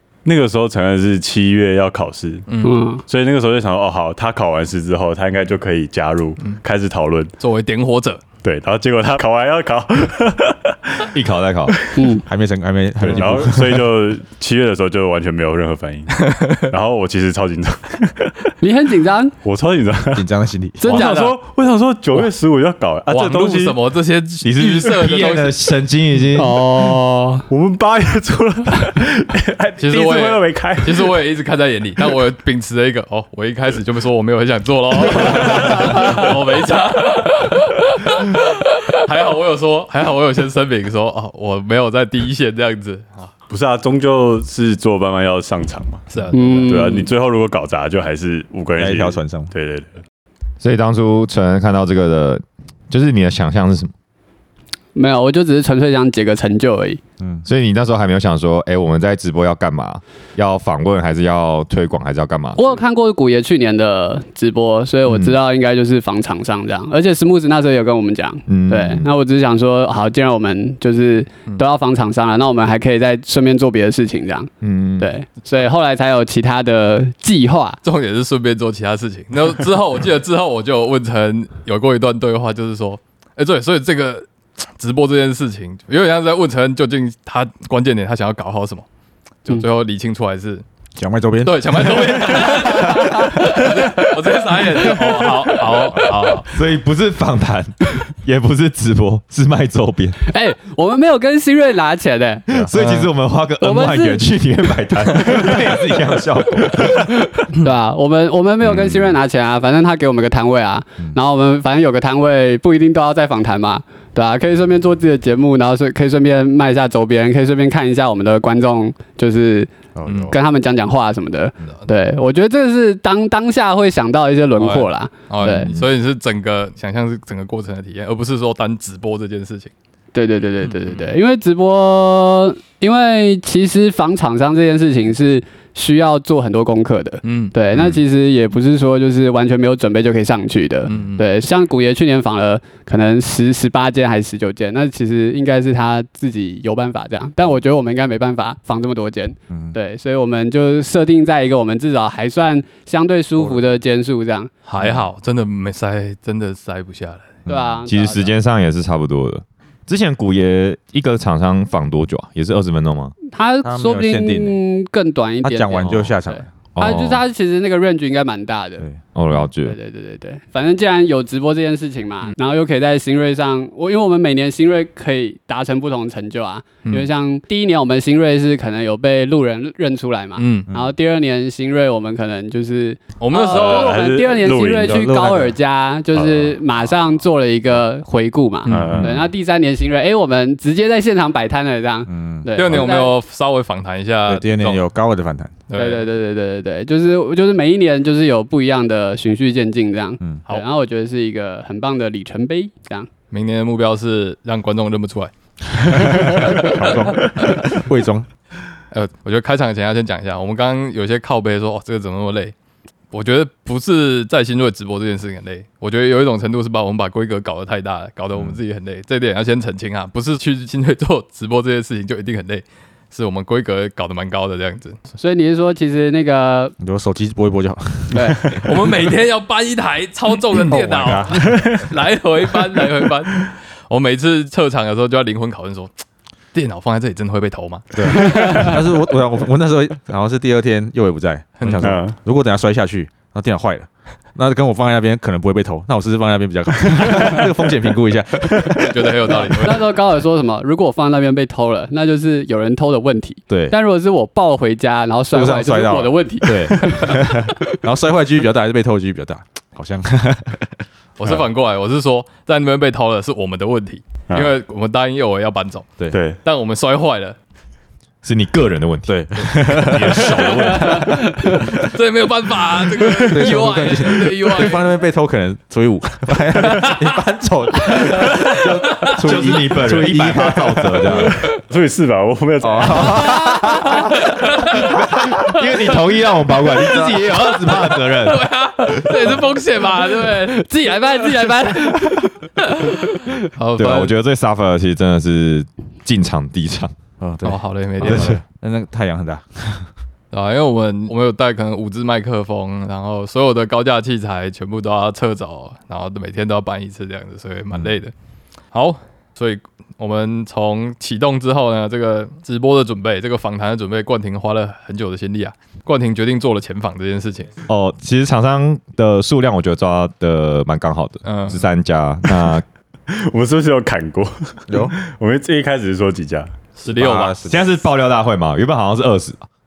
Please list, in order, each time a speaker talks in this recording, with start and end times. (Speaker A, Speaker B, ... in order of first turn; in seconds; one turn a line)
Speaker A: 0.2-2.5
Speaker B: 2.5-2.8
Speaker C: 2.6-3.0
Speaker A: 3.0-7.3
Speaker B: 7.4-8.2
Speaker A: 8.4-11.1
Speaker D: 11.1-11.8
Speaker C: 11.9-12.2
Speaker E: 12.2-13.9
Speaker A: 13.0-18.3
Speaker B: 16.3-16.6
Speaker C: 18.6-19.3
Speaker A: 19.4-20.3
Speaker E: 20.1-21.1
Speaker C: 20.8-21.3
Speaker A: 20.8-23.8
Speaker B: 23.1-25.6
Speaker D: 24.4-26.6
Speaker C: 26.3-27.4
Speaker A: 27.5-31.2
Speaker B: 29.8-43.3
Speaker A: 43.5-46.1
Speaker B: 46.1-46.6
Speaker C: 46.3-47.1
Speaker A: 46.6-50.0
Speaker E: 48.8-49.5
Speaker D: 50.6-53.9
Speaker C: 54.9-57.0
Speaker E: 57.2-57.4
Speaker D: 57.4-62.7
Speaker C: 62.5-77.8
Speaker D: 65.0-65.4
Speaker D: 68.5-69.1
Speaker D: 74.6-75.1
Speaker B: 77.8-88.8
Speaker B: 89.4-90.6
Speaker E: 91.0-94.1
Speaker B: 91.4-96.5
Speaker C: 94.8-95.4
Speaker D: 96.5-100.2
Speaker C: 100.3-102.5
Speaker D: 102.5-107.3
Speaker B: 102.7-103.1
Speaker C: 103.6-104.2
Speaker C: 107.3-125.7
Speaker E: 119.9-120.3
Speaker B: 120.1-120.3
Speaker B: 124.6-129.7
Speaker E: 125.4-125.7
Speaker C: 130.1-154.5
Speaker B: 130.6-131.1
Speaker B: 137.2-137.5
Speaker B: 140.9-141.2
Speaker E: 149.5-149.8
Speaker B: 154.7-157.4
Speaker C: 157.5-158.3
Speaker D: 157.8-163.1
Speaker C: 163.3-168.8
Speaker E: 163.6-164.6
Speaker E: 165.4-166.5
Speaker D: 165.8-166.1
Speaker D: 166.7-167.2
Speaker D: 169.1-169.8
Speaker C: 169.6-193.2
Speaker B: 180.4-180.7
Speaker B: 183.2-184.0
Speaker A: 183.4-185.1
Speaker E: 184.9-185.5
Speaker A: 186.1-186.5
Speaker B: 188.7-189.1
Speaker A: 188.7-189.2
Speaker E: 188.9-189.2
Speaker E: 192.1-192.8
Speaker B: 192.5-194.8
Speaker E: 194.2-195.5
Speaker B: 195.7-196.0
Speaker C: 195.7-203.1
Speaker B: 203.3-207.3
Speaker E: 205.7-208.3
Speaker B: 208.9-212.5
Speaker B: 213.1-225.0
Speaker C: 225.2-226.7
Speaker E: 226.8-228.7
Speaker C: 228.1-228.4
Speaker B: 228.6-235.9
Speaker E: 230.6-231.7
Speaker A: 231.5-231.8
Speaker B: 236.5-238.8
Speaker E: 237.9-249.6
Speaker C: 238.1-238.7
Speaker B: 241.6-241.9
Speaker A: 241.8-242.2
Speaker B: 248.7-249.9
Speaker C: 249.3-257.6
Speaker E: 253.5-253.8
Speaker E: 255.3-260.8
Speaker B: 261.2-267.4
Speaker A: 266.1-266.4
Speaker D: 268.2-271.2
Speaker E: 269.1-271.9
Speaker C: 271.1-271.6
Speaker B: 271.8-274.8
Speaker E: 273.2-281.3
Speaker B: 276.6-277.0
Speaker B: 277.9-279.2
Speaker D: 279.2-281.4
Speaker A: 281.1-283.4
Speaker E: 282.6-283.9
Speaker C: 283.3-284.0
Speaker B: 284.0-285.0
Speaker D: 284.8-288.4
Speaker B: 286.8-294.1
Speaker E: 286.9-287.1
Speaker C: 290.2-293.3
Speaker D: 293.8-296.9
Speaker E: 297.2-299.9
Speaker B: 297.4-298.4
Speaker D: 298.0-298.4
Speaker B: 300.3-308.1
Speaker B: 308.7-317.5
Speaker D: 317.7-322.6
Speaker B: 321.2-321.6
Speaker A: 323.1-326.5
Speaker E: 324.7-324.9
Speaker B: 326.8-327.4
Speaker E: 326.9-327.7
Speaker D: 327.4-329.4